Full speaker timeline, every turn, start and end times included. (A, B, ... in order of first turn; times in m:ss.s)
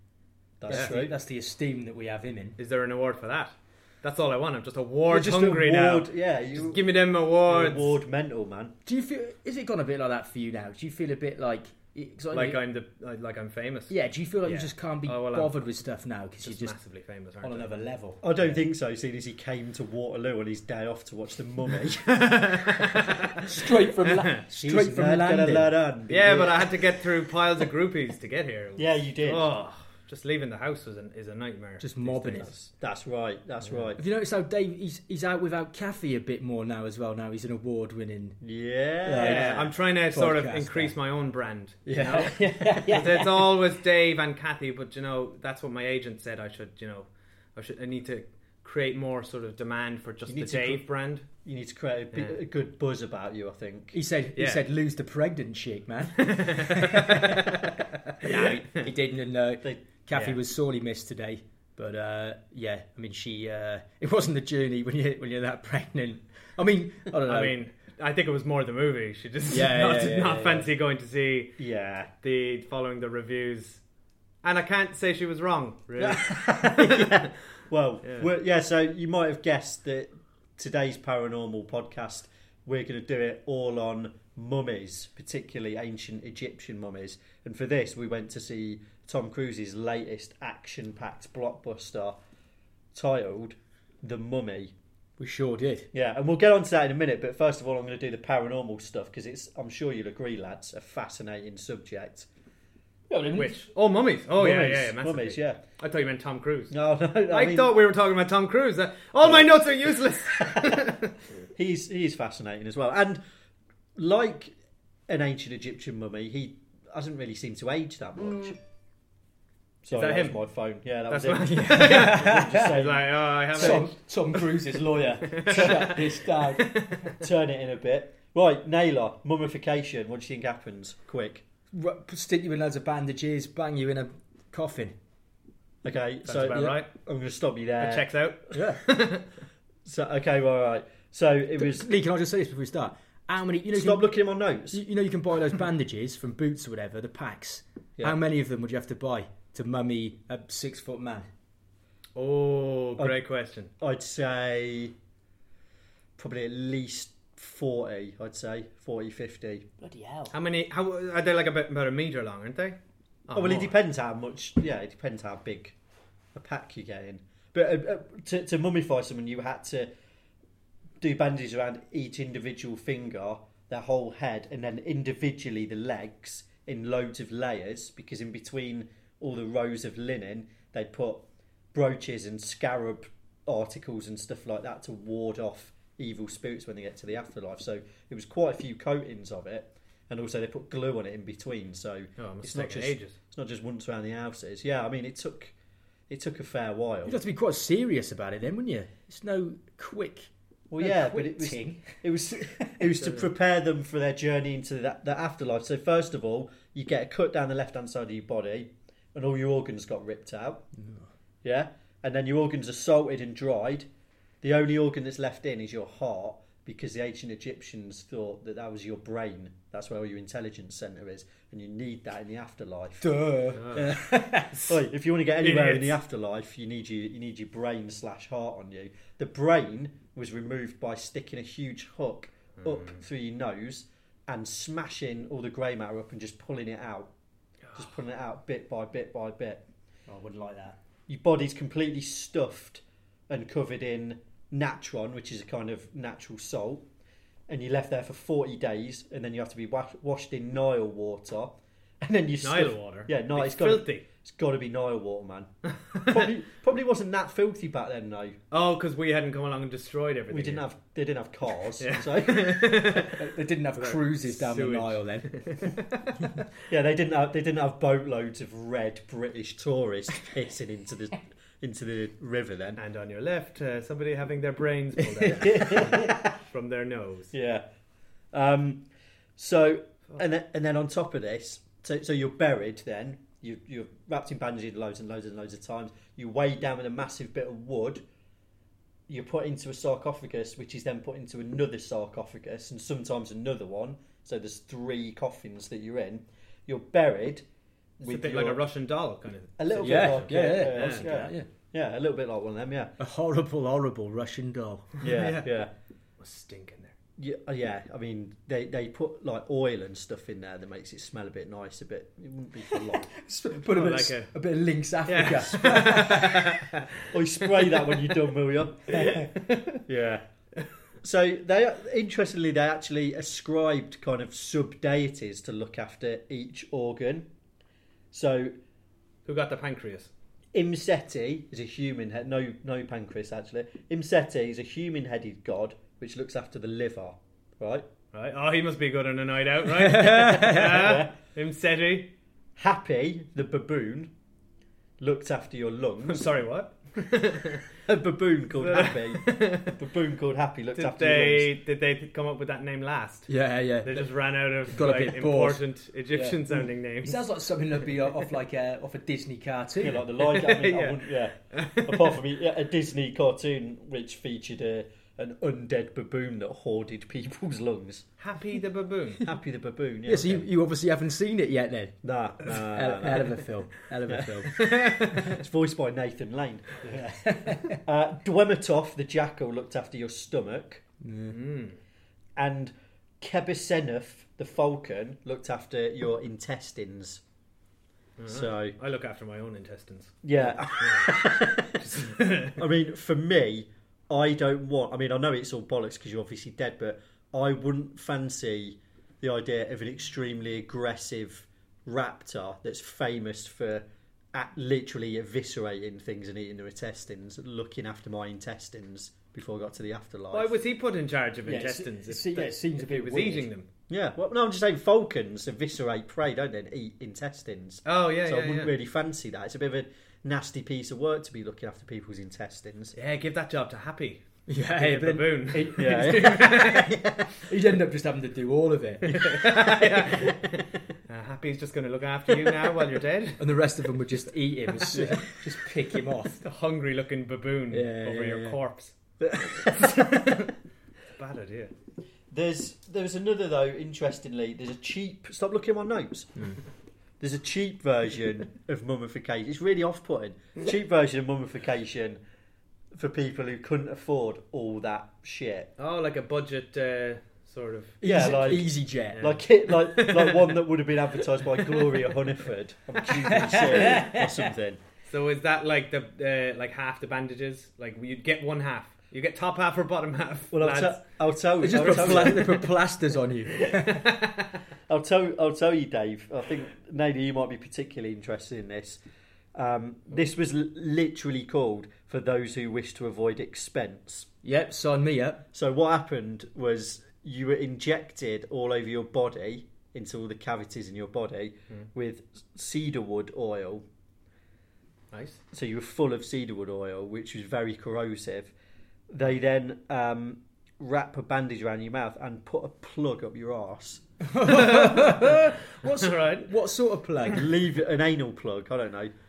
0:00.6-0:01.1 A
0:00.7-0:02.6 B
0:02.6-0:08.0 C
0:05.1-0:08.7 A
0:08.8-0:12.6 B
0:12.3-0:13.9 C
0:13.9-0:16.8 B
0:14.4-0:15.6 C
0:16.4-0:17.7 C
0:17.4-0:18.6 B
0:18.2-0:23.1 A
0:22.1-0:23.4 C
0:23.4-0:25.7 B
0:24.0-0:24.3 C
0:24.5-0:26.8 A
0:26.1-0:32.5 C
0:28.8-0:29.5 A
0:31.8-0:32.5 B
0:32.4-0:34.0 A
0:33.6-0:33.9 C
0:34.0-0:38.4 B
0:38.4-0:39.7 A
0:39.0-0:40.9 B
0:39.2-0:51.2 C
0:41.8-0:43.5 B
0:50.3-0:50.8 A
0:51.4-0:54.0 A
0:53.9-0:57.6 B
0:54.4-0:54.6 C
0:56.2-0:57.6 C
0:58.2-1:07.6 B
0:58.2-0:58.8 C
0:59.6-1:00.4 A
1:07.2-1:11.6 C
1:09.5-1:10.7 B
1:11.6-1:12.1 A
1:12.2-1:13.8 C
1:14.4-1:17.1 C
1:16.0-1:32.2 A
1:18.0-1:18.3 C
1:32.9-1:34.7 A
1:35.2-1:35.9 B
1:35.9-1:42.3 A
1:43.1-1:43.7 B
1:43.3-1:51.1 C
1:44.4-1:45.6 A
1:46.7-1:47.8 A
1:49.2-1:50.8 A
1:51.6-1:53.2 A
1:54.0-1:54.5 A
1:55.1-1:58.6 A
1:59.8-2:03.8 A
1:59.9-2:00.4 C
2:01.1-2:04.4 C
2:01.6-2:02.8 B
2:03.5-2:06.9 B
2:05.3-2:07.0 C
2:05.5-2:06.0 A
2:07.2-2:11.4 A
2:11.7-2:14.9 B
2:15.8-2:18.1 A
2:16.2-2:16.9 C
2:16.5-2:16.8 B
2:17.8-2:19.2 C
2:18.5-2:18.8 B
2:19.8-2:21.9 A
2:21.6-2:24.1 B
2:23.7-2:24.8 A
2:24.7-2:31.3 B
2:32.1-2:33.7 C
2:33.8-2:34.9 A
2:36.2-2:39.7 A
2:39.8-2:40.3 B
2:40.3-2:42.8 C
2:43.3-2:43.7 C
2:43.3-2:45.7 A
2:46.3-2:49.9 A
2:51.0-3:15.5 A
3:12.2-3:13.2 C
3:16.1-3:17.2 A
3:17.0-3:21.9 B
3:20.7-3:30.6 A
3:23.0-3:23.2 C
3:31.4-3:33.9 A
3:34.4-3:43.1 A
3:43.0-3:44.6 B
3:43.6-3:43.9 C
3:43.7-3:57.1 A
3:44.5-3:44.8 C
3:45.4-3:46.0 C
3:52.6-3:53.0 C
3:57.7-3:59.6 A
4:00.1-4:00.8 B
4:01.1-4:06.8 A
4:07.5-4:15.5 A
4:12.4-4:14.0 C
4:15.9-4:16.3 C
4:16.1-4:18.4 A
4:18.5-4:20.6 C
4:20.3-4:23.1 A
4:21.8-4:23.2 C
4:23.2-4:25.4 B
4:23.8-4:26.1 C
4:26.7-4:32.8 A
4:32.8-4:37.3 C
4:35.4-4:36.4 A
4:37.3-4:37.6 A
4:38.3-4:38.8 A
4:39.4-4:48.0 A
4:49.1-4:57.4 A
4:58.0-4:58.6 A
4:58.0-5:01.2 C
4:59.6-5:02.9 A
4:59.8-5:01.5 B
5:03.0-5:04.9 B
5:05.0-5:05.7 C
5:05.0-5:05.7 A
5:06.2-5:06.9 C
5:07.2-5:13.0 A
5:12.7-5:16.5 B
5:13.6-5:14.3 C
5:15.1-5:16.9 C
5:15.6-5:16.2 A
5:17.0-5:19.0 A
5:19.0-5:19.8 C
5:19.8-5:20.2 A
5:21.0-5:27.3 A
5:28.1-5:28.5 A
5:29.2-5:30.1 C
5:30.5-5:37.8 A
5:38.1-5:42.1 C
5:39.8-5:40.6 B
5:40.4-5:41.1 A
5:42.6-5:44.1 A
5:45.0-5:46.3 A
5:46.0-5:47.6 C
5:47.8-5:51.5 A
5:48.5-5:49.8 C
5:50.7-5:53.3 C
5:53.3-5:54.1 B
5:53.8-5:57.2 C
5:54.7-5:56.4 B
5:57.0-6:00.0 B
5:59.8-6:08.1 A
6:00.2-6:02.1 C
6:08.2-6:09.2 C
6:09.2-6:10.4 A
6:10.0-6:14.5 B
6:12.0-6:13.4 A
6:14.1-6:16.7 A
6:14.5-6:15.2 C
6:16.8-6:17.8 B
6:17.8-6:20.8 A
6:21.0-6:21.4 B
6:21.3-6:21.8 C
6:22.4-6:27.2 A
6:28.2-6:31.1 C
6:28.3-6:28.7 A
6:30.2-6:50.5 A
6:31.8-6:32.6 C
6:50.3-6:53.6 C
6:51.4-6:53.5 B
6:53.9-7:02.9 A
6:57.8-6:58.7 C
7:02.9-7:04.2 C
7:04.5-7:06.9 B
7:04.8-7:07.0 C
7:05.8-7:07.3 A
7:07.4-7:09.2 B
7:09.1-7:09.9 A
7:09.1-7:13.4 C
7:13.4-7:16.4 B
7:15.0-7:15.2 C
7:16.4-7:18.9 C
7:17.7-7:18.6 B
7:19.2-7:20.0 A
7:20.0-7:20.4 C
7:21.1-7:21.7 C
7:22.3-7:26.3 A
7:27.2-7:32.2 A
7:32.9-7:35.7 A
7:35.8-7:38.0 C
7:38.0-7:39.3 B
7:38.0-7:44.8 A
7:39.1-7:40.6 C
7:41.6-7:41.9 C
7:43.2-7:44.5 B
7:45.1-7:51.0 C
7:50.5-7:52.6 A
7:51.6-7:54.0 B
7:51.8-7:52.4 C
7:53.6-7:54.5 C
7:54.9-7:59.0 A
7:59.5-8:04.3 A
8:04.4-8:05.4 B
8:05.5-8:13.8 A
8:15.1-8:15.4 C
8:15.5-8:18.5 A
8:19.1-8:24.0 A
8:24.2-8:27.4 B
8:24.5-8:26.5 C
8:27.2-8:29.1 A